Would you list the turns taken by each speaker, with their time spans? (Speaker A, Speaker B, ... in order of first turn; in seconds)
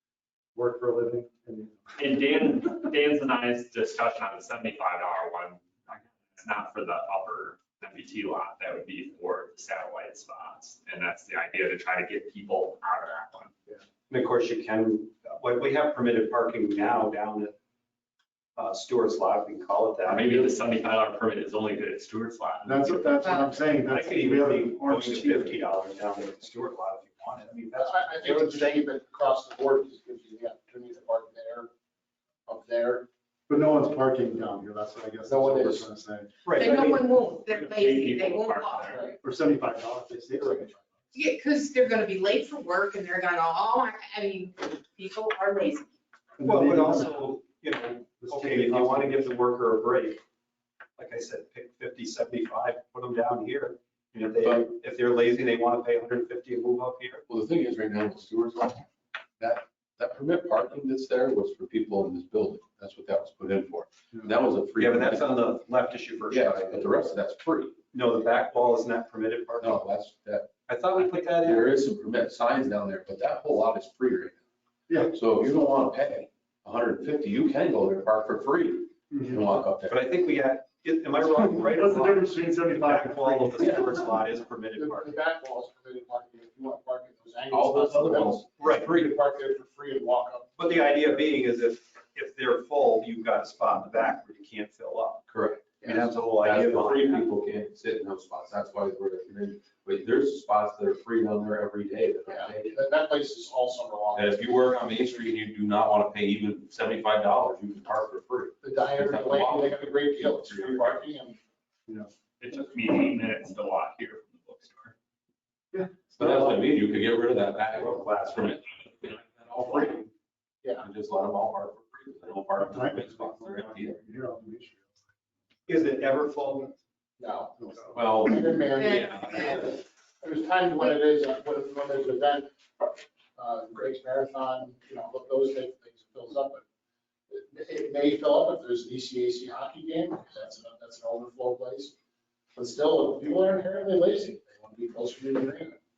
Speaker A: 0.5-1.8, 22.6-25.6, 33.5-36.3, 39.2-40.8, 46.4-47.2, 48.2-49.2, 74.9-75.1, 79.1-79.5, 81.2-83.9, 115.7-116.5, 122.6-124.9, 127.6-128.1
Speaker B: 2.0-13.5, 20.1-23.1, 37.5-39.1, 112.4-114.9
Speaker C: 14.1-17.5, 18.6-20.5, 23.8-28.8, 36.4-37.1, 46.4-50.2, 51.0-57.2, 64.8-67.0, 67.9-69.8, 70.7-71.7, 79.9-85.2, 88.6-89.1, 90.6-95.3, 95.8-97.2, 117.7-118.5, 125.7-126.7
Speaker D: 23.2-23.8, 36.5-39.0, 41.1-45.9, 128.8-129.6
Speaker E: 27.7-31.7, 32.5-33.1, 35.3-35.8, 38.8-39.1, 84.7-90.9, 95.8-96.1, 102.3-104.5, 108.6-111.4, 127.2-136.6, 137.3-141.9, 142.5-145.8
Speaker F: 57.3-58.9, 59.4-65.4, 66.3-67.7, 69.6-70.5, 71.4-74.4, 75.1-80.0, 87.5-88.5, 95.3-95.8, 96.4-102.8, 104.1-111.0, 116.2-120.1, 120.8-124.0, 127.9-129.5